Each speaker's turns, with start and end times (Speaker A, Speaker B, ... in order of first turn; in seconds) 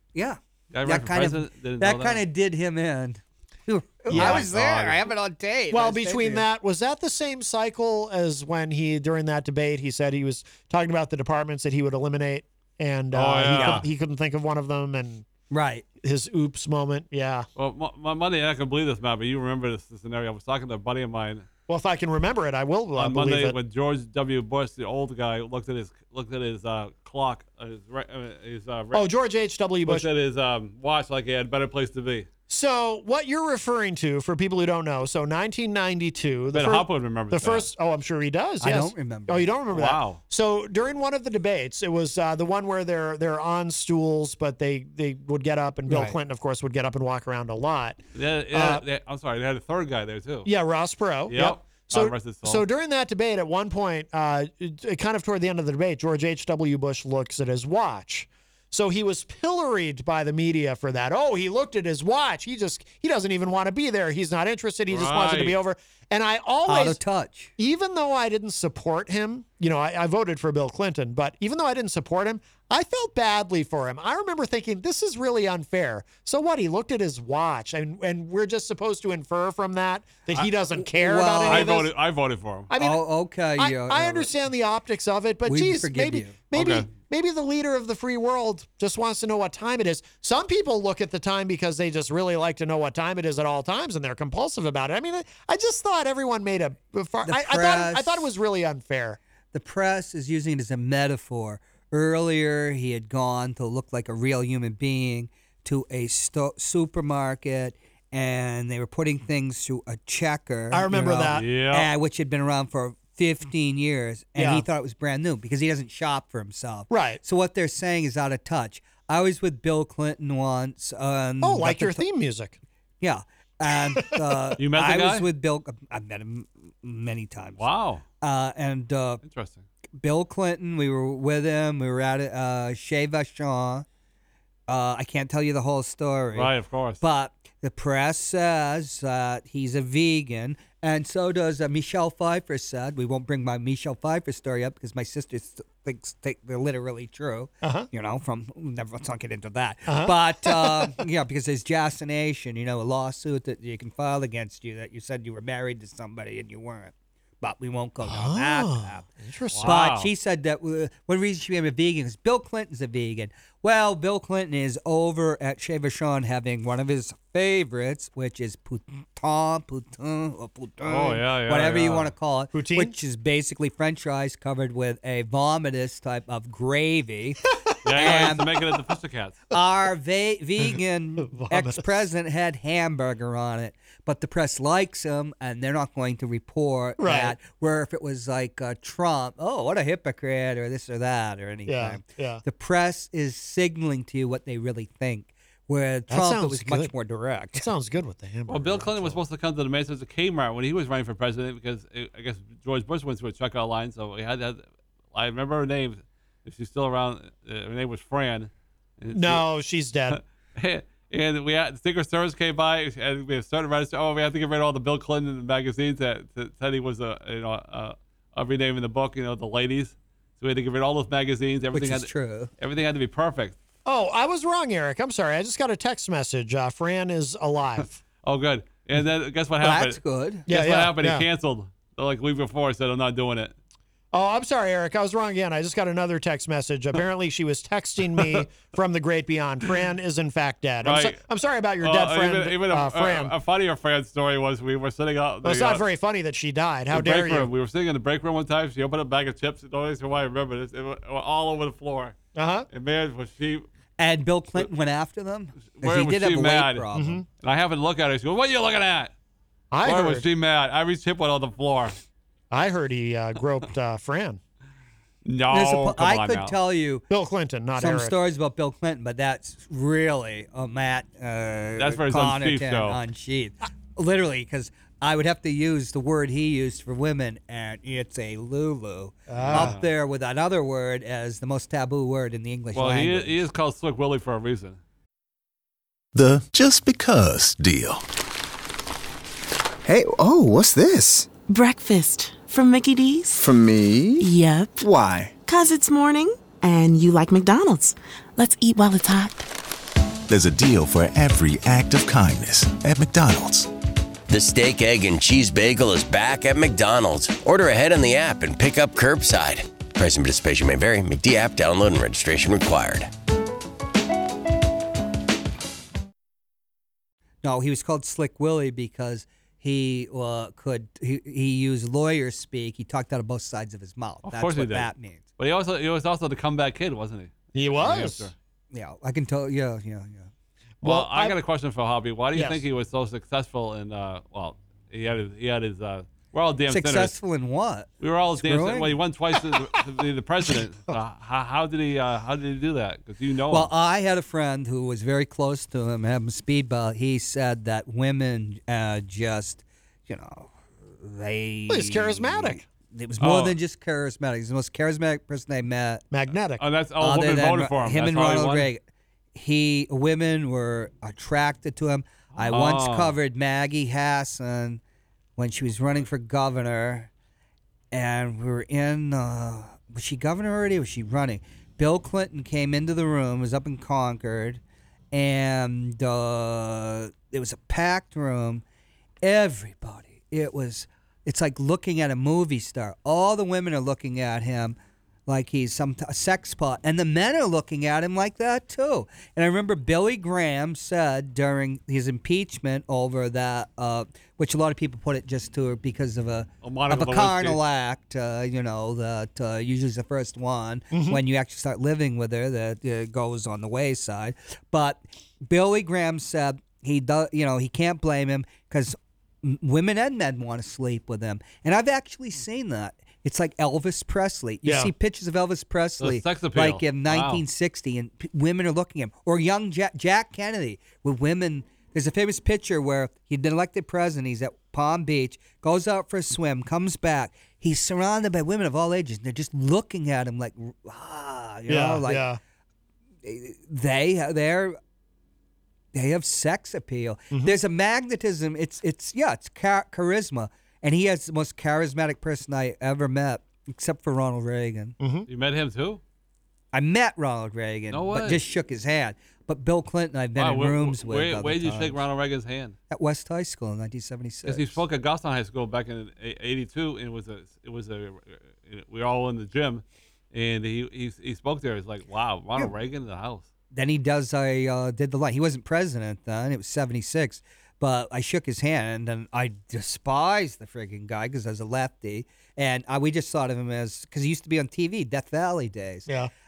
Speaker A: 0.1-6.5, 15.5-15.8, 38.6-39.5, 45.9-46.1, 66.7-67.5, 80.8-81.8, 82.8-84.3, 85.4-86.4, 97.2-98.3, 99.5-122.0, 123.0-127.6, 128.2-129.2, 130.0-133.8, 134.7-159.1, 159.6-177.4, 177.9-178.5, 179.5-197.7, 221.7-222.5, 229.6-230.5, 254.0-257.2, 265.5-267.1, 267.8-283.4, 317.4-325.2, 328.7-330.3, 336.7-339.0, 343.5-356.0, 357.0-358.8, 359.3-364.8, 365.4-367.1, 367.9-374.6, 375.1-378.6, 379.2-384.8, 385.3-432.3, 433.2-434.8, 435.9-444.9, 446.7-452.0, 452.9-454.8, 463.7-476.1
Speaker B: 0.7-2.2, 4.1-5.0, 13.1-13.9, 17.6-21.4, 23.0-29.1, 29.8-32.3, 36.5-37.7, 39.7-40.2, 48.1-50.5, 51.3-52.6, 64.9-65.6, 81.4-82.7, 86.5-86.9, 111.3-111.9, 124.6-125.3, 127.6-128.0, 129.2-129.7, 136.3-137.0, 159.5-160.1, 170.8-172.1, 177.8-179.4, 198.5-209.4, 210.1-223.6, 228.2-233.5, 240.8-241.2, 241.8-245.8, 246.9-252.2, 252.7-253.7, 255.7-256.9, 257.4-259.1, 259.8-262.0, 265.2-266.6, 271.8-273.0, 279.4-279.9, 282.7-284.8, 324.2-328.3, 330.8-337.1, 338.0-343.7, 353.2-353.6, 356.6-358.7, 362.5-363.1, 396.6-397.6, 416.0-417.4, 445.3-446.0, 447.9-448.4, 450.4-452.8, 454.4-463.5
Speaker C: 4.1-4.5, 5.7-15.3, 16.0-17.5, 21.7-23.6, 28.9-30.1, 32.5-48.8, 50.4-67.0, 67.6-81.9, 82.7-83.0, 83.6-99.2, 110.7-111.5, 114.3-114.7, 116.9-117.2, 121.4-122.6, 123.9-124.5, 147.6-147.9, 149.8-151.0, 158.0-159.7, 172.5-172.9, 177.7-178.3, 181.2-181.8, 187.0-187.3, 191.7-192.4, 196.1-196.9, 197.5-199.2, 209.1-210.2, 223.8-227.9, 230.5-231.3, 234.1-243.3, 245.4-247.5, 252.3-252.7, 256.9-257.2, 259.7-260.3, 262.5-264.4, 267.1-268.1, 279.3-279.8, 327.6-328.3, 330.8-331.4, 332.3-332.6, 340.5-340.9, 351.7-352.6, 356.1-356.6, 400.9-401.2, 414.6-414.9, 431.7-432.4, 437.3-437.6, 445.0-445.3
Speaker D: 286.1-288.0, 300.3-303.7
Speaker E: 289.8-291.3, 293.4-294.3, 294.8-295.1
Speaker F: 291.5-293.4, 294.2-294.9, 295.5-299.4
Speaker G: 304.3-313.1